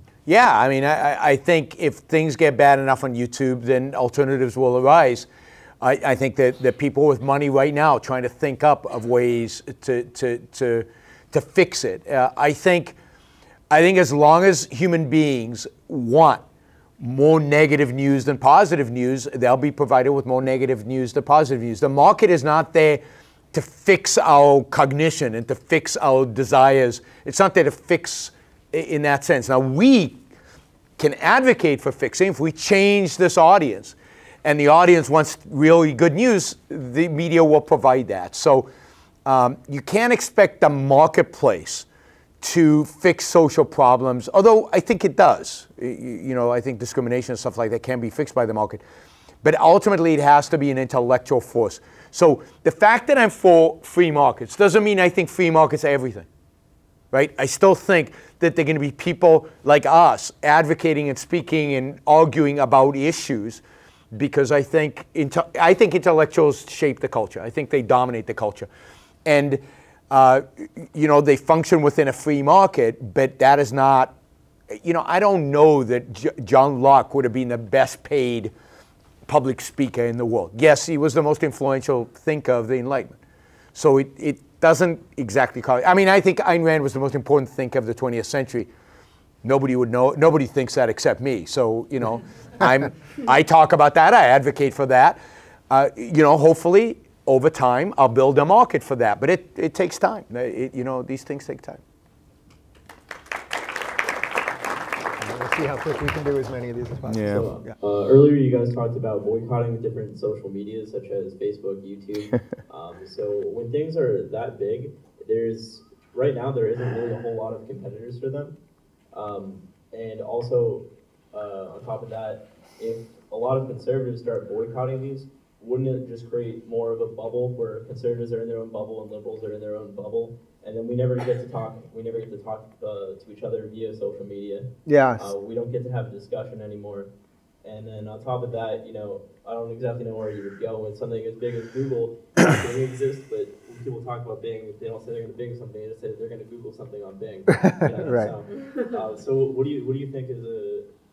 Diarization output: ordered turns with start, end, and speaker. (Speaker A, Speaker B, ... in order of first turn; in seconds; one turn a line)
Speaker A: 0.2-5.3
Speaker A: 5.8-12.9
Speaker A: 13.7-16.4
Speaker A: 17.0-23.0
Speaker A: 23.5-30.2
Speaker A: 31.0-38.7
Speaker A: 39.2-41.9
Speaker A: 42.4-48.8
Speaker A: 49.4-56.2
Speaker A: 57.1-68.7
Speaker A: 69.2-74.1
Speaker A: 74.7-78.5
Speaker A: 79.3-83.2
Speaker A: 83.7-88.7
Speaker A: 89.4-95.2
Speaker A: 95.7-101.8
Speaker B: 105.2-107.7
Speaker A: 107.1-107.5
Speaker C: 107.2-118.6
Speaker C: 119.1-137.1
Speaker B: 134.8-135.3
Speaker C: 137.6-150.9
Speaker B: 147.5-148.3